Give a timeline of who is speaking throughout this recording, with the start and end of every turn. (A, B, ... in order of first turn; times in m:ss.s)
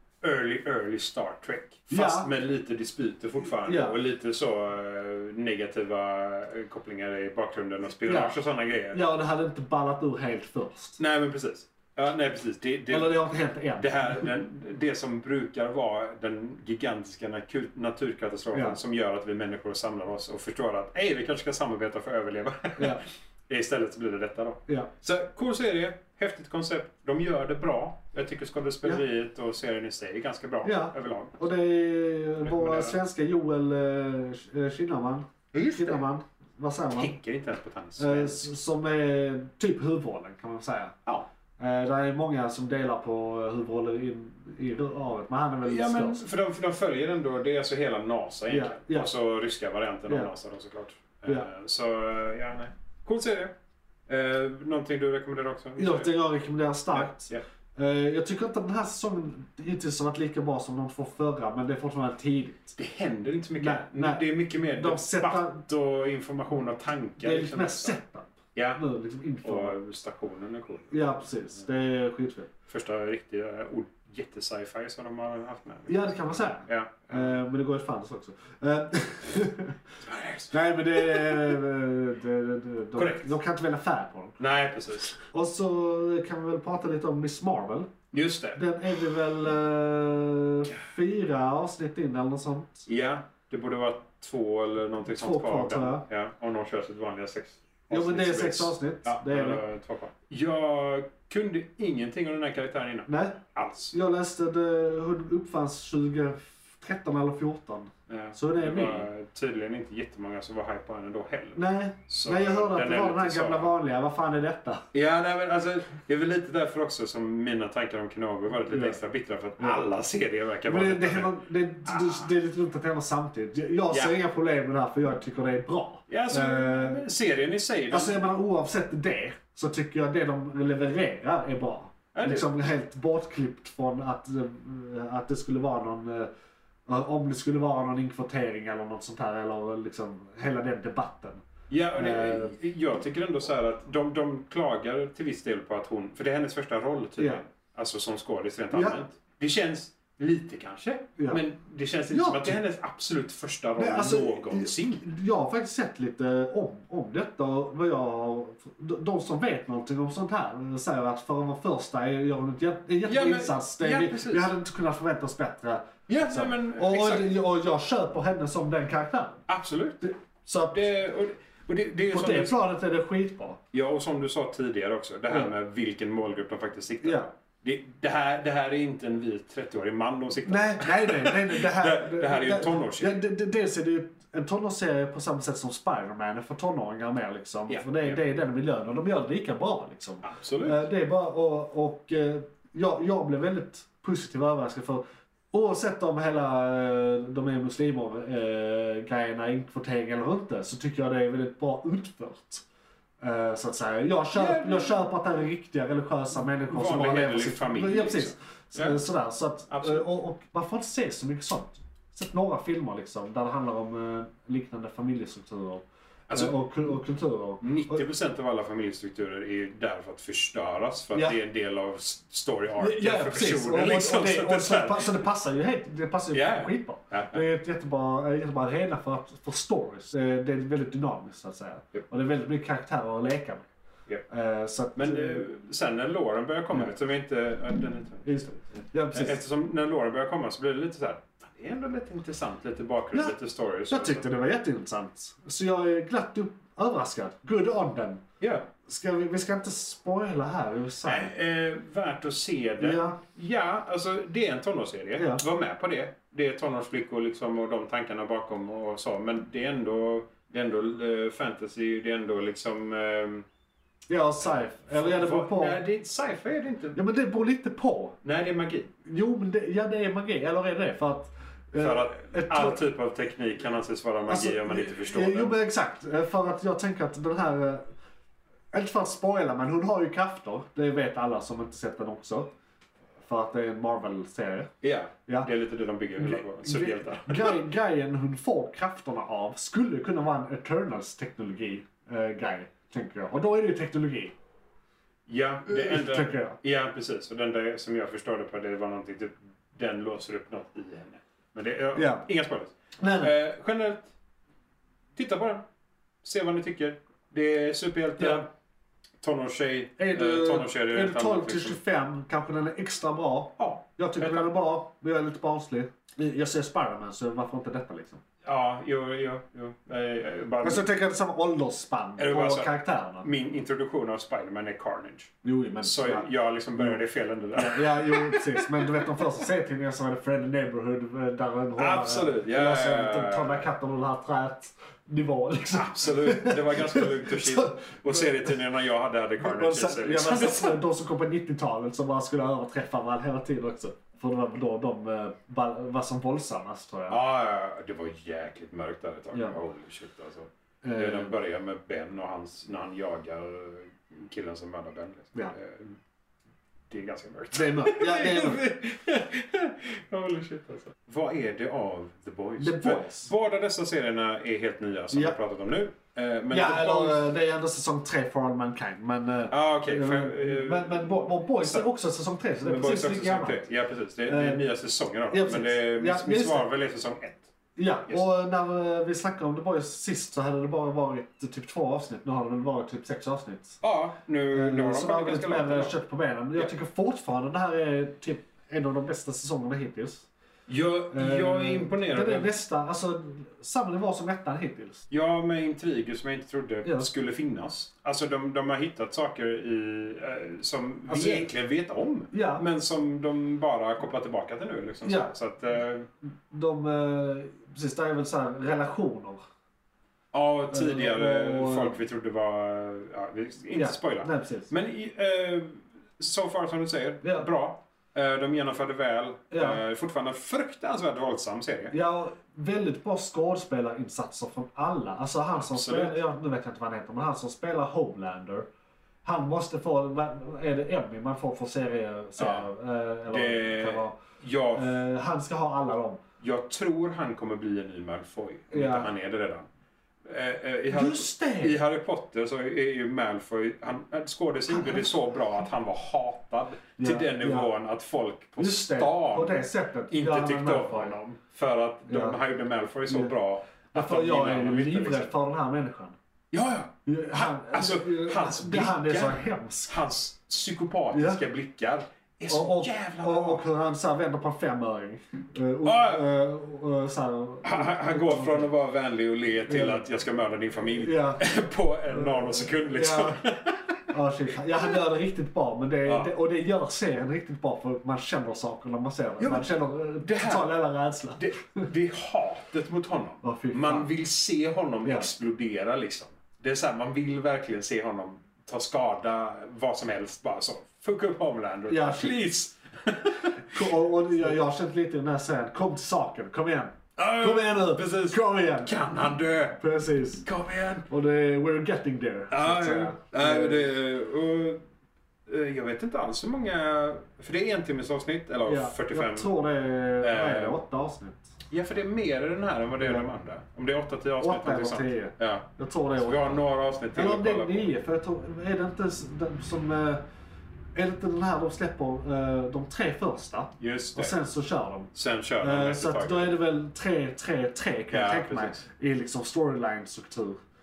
0:00.2-0:09.0 A
0:01.9-0:02.3 B
0:03.6-0:04.0 B
0:08.0-0:08.4 B
0:08.9-0:11.0 B
0:11.0-0:13.2 A
0:12.9-0:14.3 B
0:13.8-0:31.4 A
0:18.5-0:18.8 B
0:22.8-0:23.0 B
0:30.6-0:37.1 B
0:32.4-0:33.0 A
0:35.5-0:36.0 A
0:36.9-0:38.5 A
0:38.0-0:40.9 B
0:41.6-0:46.2 B
0:45.6-0:53.5 A
0:48.5-0:49.1 B
0:50.1-0:50.3 B
0:54.1-0:56.1 A
0:55.8-1:02.8 B
0:56.9-0:57.4 A
1:02.8-1:08.0 A
1:03.6-1:05.6 B
1:07.2-1:09.7 B
1:08.5-1:08.8 A
1:09.4-1:11.2 A
1:10.9-1:12.5 B
1:12.7-1:16.1 A
1:15.9-1:19.8 B
1:16.6-1:17.4 A
1:20.0-1:21.6 A
1:20.5-1:24.4 B
1:23.0-1:23.4 A
1:24.4-1:25.1 A
1:25.1-1:27.9 B
1:28.1-1:28.6 A
1:28.5-1:32.9 B
1:32.9-1:43.9 A
1:35.1-1:36.0 B
1:37.9-1:39.6 B
1:43.1-1:43.4 B
1:43.9-1:49.1 B
1:48.1-1:53.7 A
1:51.5-1:54.8 B
1:54.9-2:01.3 A
1:58.7-1:59.0 B
1:59.6-1:59.8 B
2:00.6-2:07.0 B
2:01.8-2:02.3 A
2:03.9-2:04.2 A
2:06.1-2:08.2 A
2:07.9-2:16.3 B
2:12.1-2:12.5 A
2:16.9-2:21.4 B
2:21.7-2:35.1 A
2:21.9-2:22.6 B
2:28.7-2:29.0 B
2:32.1-2:32.6 B
2:33.8-2:49.4 B
2:43.0-2:44.5 A
2:46.1-2:47.4 A
2:49.5-2:50.0 A
2:50.0-2:50.9 B
2:50.7-2:52.6 A
2:52.1-2:53.6 B
2:53.7-3:03.2 A
2:57.0-2:57.3 B
3:00.4-3:22.6 B
3:07.7-3:08.2 A
3:10.2-3:10.8 A
3:23.2-3:38.0 B
3:24.3-3:25.1 A
3:26.7-3:29.0 A
3:29.7-3:30.0 A
3:36.3-3:36.9 A
3:37.6-3:45.2 A
3:42.8-3:53.7 B
3:46.3-3:47.4 A
3:54.3-3:55.4 B
3:55.0-4:04.2 A
3:58.2-3:59.4 B
4:03.9-4:08.2 B
4:08.4-4:08.7 A
4:08.9-4:11.3 B
4:11.0-4:23.4 A
4:12.8-4:13.2 B
4:15.2-4:15.4 B
4:24.1-4:25.8 B
4:24.4-4:27.0 A
4:26.9-4:28.2 B
4:28.2-4:28.9 A
4:29.0-4:32.8 B
4:31.8-4:35.6 A
4:34.3-4:37.8 B
4:38.7-4:42.5 B
4:43.2-4:44.7 B
4:44.8-4:47.6 A
4:46.2-4:54.3 B
4:55.3-5:04.1 A
4:55.7-4:56.6 B
5:01.9-5:02.2 B
5:03.0-5:03.3 B
5:05.1-5:05.6 A
5:06.2-5:08.5 A
5:08.2-5:08.4 B
5:09.2-5:11.8 A
5:10.0-5:18.2 B
5:13.6-5:14.5 A
5:18.4-5:20.8 A
5:20.6-5:23.3 B
5:22.2-5:29.2 A
5:25.4-5:27.0 B
5:27.6-5:38.5 B
5:31.8-5:33.7 A
5:35.7-5:40.8 A
5:39.4-5:47.2 B
5:47.1-5:56.0 A
5:50.8-5:51.3 B
5:56.9-6:07.2 A
5:57.5-5:58.7 B
6:02.6-6:03.3 B
6:05.1-6:05.4 B
6:06.5-6:13.7 B
6:09.5-6:11.9 A
6:12.6-6:17.5 A
6:14.3-6:14.6 B
6:15.3-6:16.7 B
6:17.8-6:23.8 B
6:23.8-6:25.9 A
6:24.5-6:30.3 B
6:30.7-6:32.5 A
6:31.1-6:35.0 B
6:35.1-6:46.1 A
6:41.1-6:41.5 B
6:42.3-6:42.6 B
6:45.0-6:45.3 B
6:46.5-6:49.4 B
6:50.3-7:01.9 A
6:50.7-6:52.0 B
6:53.7-6:54.7 B
6:57.2-6:57.5 B
6:59.5-6:59.8 B
7:01.9-7:08.7 B
7:05.5-7:06.2 A
7:09.2-7:14.2 B
7:12.4-7:12.7 A
7:13.3-7:15.0 A
7:14.7-7:16.2 B
7:16.4-7:19.6 A
7:18.7-7:19.1 B
7:20.2-7:35.3 A
7:20.9-7:21.8 B
7:24.7-7:25.1 B
7:27.0-7:27.7 B
7:28.6-7:31.4 B
7:32.1-7:32.4 B
7:33.1-7:33.3 B
7:33.9-7:36.2 B
7:36.5-7:43.6 A
7:37.0-7:39.9 B
7:41.1-7:41.4 B
7:42.5-7:48.7 B
7:45.8-7:46.2 A
7:47.6-7:54.1 A
7:49.7-7:50.0 B
7:50.8-7:51.5 B
7:52.1-7:53.4 B
7:54.1-8:01.8 B
7:54.8-7:55.0 A
7:56.0-7:56.3 A
7:59.4-7:59.7 A
8:00.2-8:00.7 A
8:01.4-8:13.9 A
8:03.4-8:04.1 B
8:11.9-8:12.4 B
8:13.7-8:19.0 B
8:17.2-8:19.8 A
8:19.8-8:20.5 B
8:20.4-8:21.1 A
8:21.1-8:23.9 B
8:22.5-8:24.8 A
8:25.5-8:29.5 A
8:28.6-8:31.5 B
8:30.2-8:30.8 A
8:31.7-8:37.9 A
8:33.0-8:33.3 B
8:34.4-8:40.2 B
8:41.0-8:50.6 B
8:43.8-8:44.4 A
8:45.1-8:46.6 A
8:48.1-8:48.8 A